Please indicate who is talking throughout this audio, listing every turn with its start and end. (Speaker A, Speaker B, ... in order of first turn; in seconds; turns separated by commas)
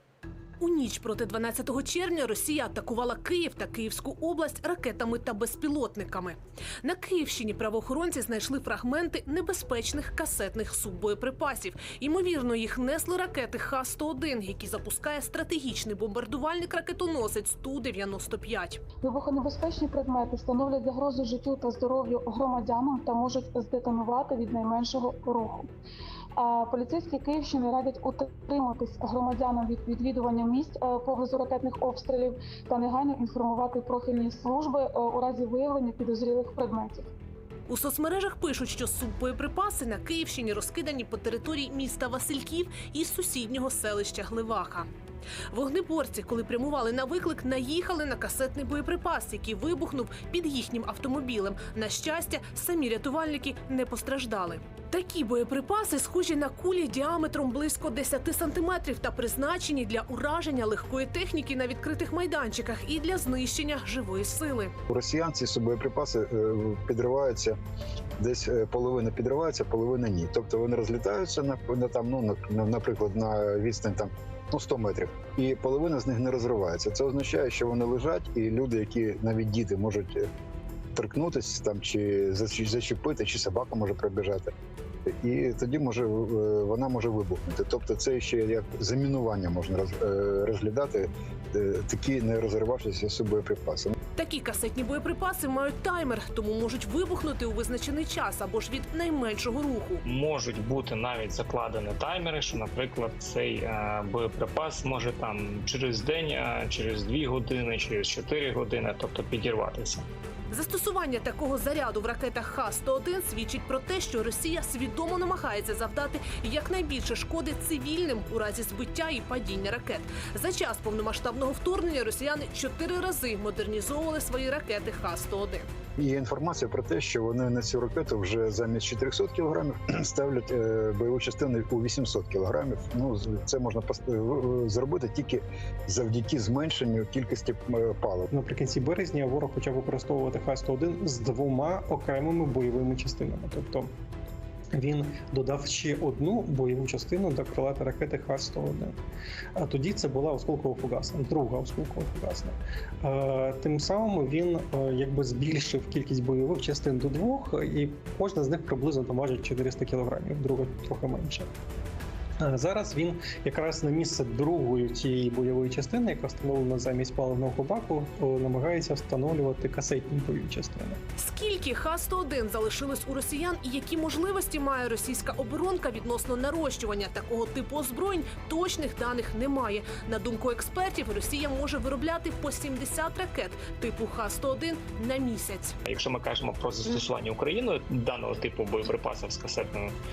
Speaker A: 0.6-18.8, Speaker B: 19.0-25.7, Speaker B: 26.4-37.1, Speaker A: 37.7-44.9, Speaker A: 45.5-64.7, Speaker C: 64.9-67.6, Speaker C: 68.2-80.3, Speaker C: 80.9-84.5, Speaker C: 85.1-93.9, Speaker A: 94.2-100.0, Speaker D: 100.0-110.0, Speaker A: 110.5-125.6, Speaker C: 126.0-138.3, Speaker E: 138.3-143.9, Speaker E: 144.7-148.9, Speaker E: 149.6-161.5, Speaker E: 162.4-171.0, Speaker A: 171.2-185.7, Speaker D: 185.9-189.9